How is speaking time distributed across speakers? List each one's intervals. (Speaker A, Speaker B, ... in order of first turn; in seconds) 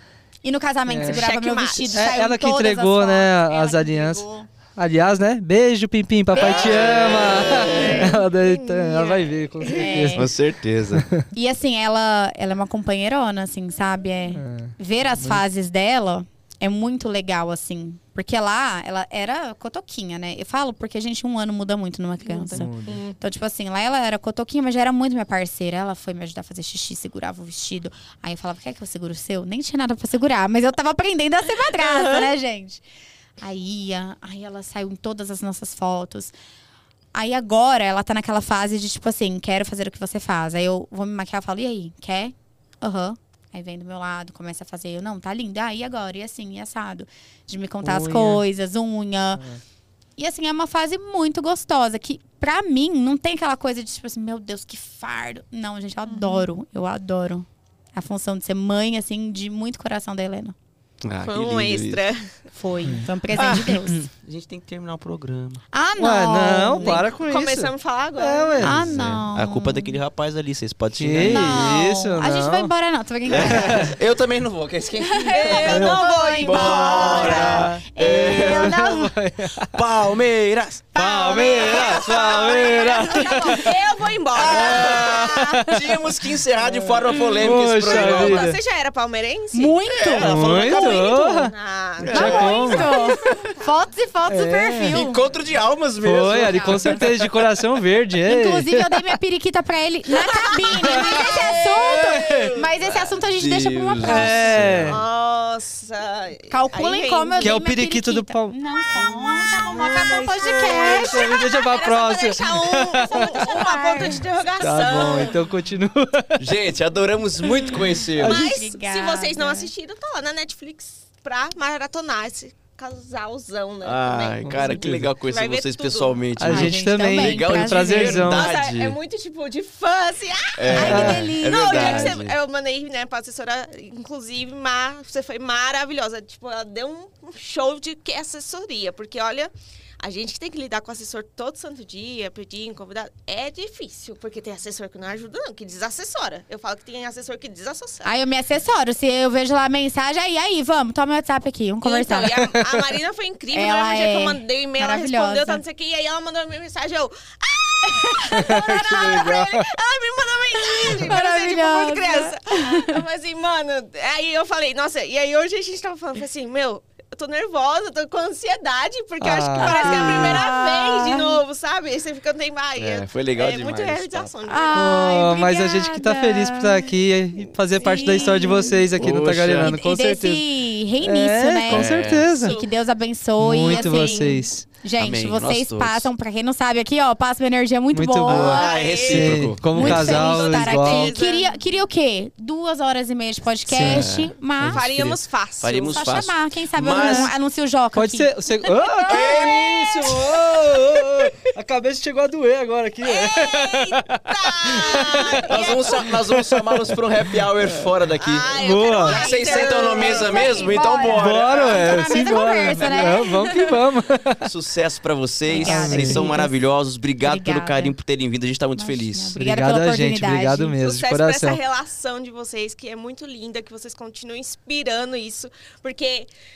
Speaker A: 0.4-4.5, 6.4-6.9, 9.7-10.3, 11.3-32.8, 33.4-36.3, 37.1-49.4, 50.2-60.5, 62.5-64.0, 65.7-67.0, 68.6-69.9, 71.2-73.9, 75.0-79.1, 80.9-83.8, 84.4-85.6, 89.5-90.6, 92.1-95.2, 98.2-104.6, 106.5-111.4, 113.0-115.3, 117.7-119.7, 126.5-128.3, 130.7-132.1, 148.0-152.5, 153.5-155.6, 157.9-159.3, 160.6-163.0, 169.6-171.4, 174.5-176.9, 177.8-178.8, 179.6-188.9, 189.7-195.0, 195.7-199.3, 209.0-213.7, 215.4-216.5, 217.2-217.9, 218.8-220.8
Speaker B: 0.9-1.3, 1.9-4.2, 4.8-10.3, 11.0-11.2, 14.3-15.4, 22.5-23.0, 47.8-48.4, 66.0-68.9, 71.0-72.7, 73.4-73.9, 77.3-79.7, 80.9-83.7, 84.6-85.8, 87.3-88.6, 90.2-91.5, 92.1-93.0, 94.3-95.0, 96.0-99.0, 100.9-101.3, 104.0-105.0, 107.4-108.6, 109.7-113.4, 114.6-116.5, 118.2-118.5, 124.4-125.1, 126.4-128.5, 130.8-132.1, 152.5-152.8, 158.4-159.7, 169.2-170.4, 174.7-180.4, 181.0-182.6, 183.4-184.6, 187.9-191.1, 193.7-195.2, 196.9-197.3, 197.9-207.8, 208.5-209.2, 211.1-214.4, 215.5-216.3, 219.3-221.6
Speaker C: 1.1-2.2, 6.3-10.0, 22.2-23.1, 31.8-32.3, 56.1-56.5, 61.2-62.3, 66.8-68.6, 75.3-77.6, 81.2-85.7, 87.1-93.6, 96.5-96.8, 100.1-101.9, 104.8-107.5, 108.9-115.5, 118.1-126.2, 128.2-148.1, 151.8-174.8, 182.4-182.7, 183.7-184.3, 188.3-191.6, 194.7-196.2, 198.6-200.3, 203.0-206.2, 208.2-210.7, 212.8-213.4, 220.8-226.3
Speaker D: 6.3-7.9, 10.2-11.1, 61.0-62.0, 63.3-65.6, 68.6-71.8, 73.3-75.9, 76.4-78.8, 79.7-80.9, 84.3-88.5, 89.9-91.2, 92.0-93.0, 94.9-97.4, 101.4-105.0, 116.4-118.4, 123.8-129.0, 130.6-132.3, 172.8-174.3, 179.0-179.7, 181.7-182.3, 185.0-186.1, 188.3-190.2, 193.8-194.3, 195.6-197.3, 199.1-199.7, 205.1-212.2, 214.4-219.4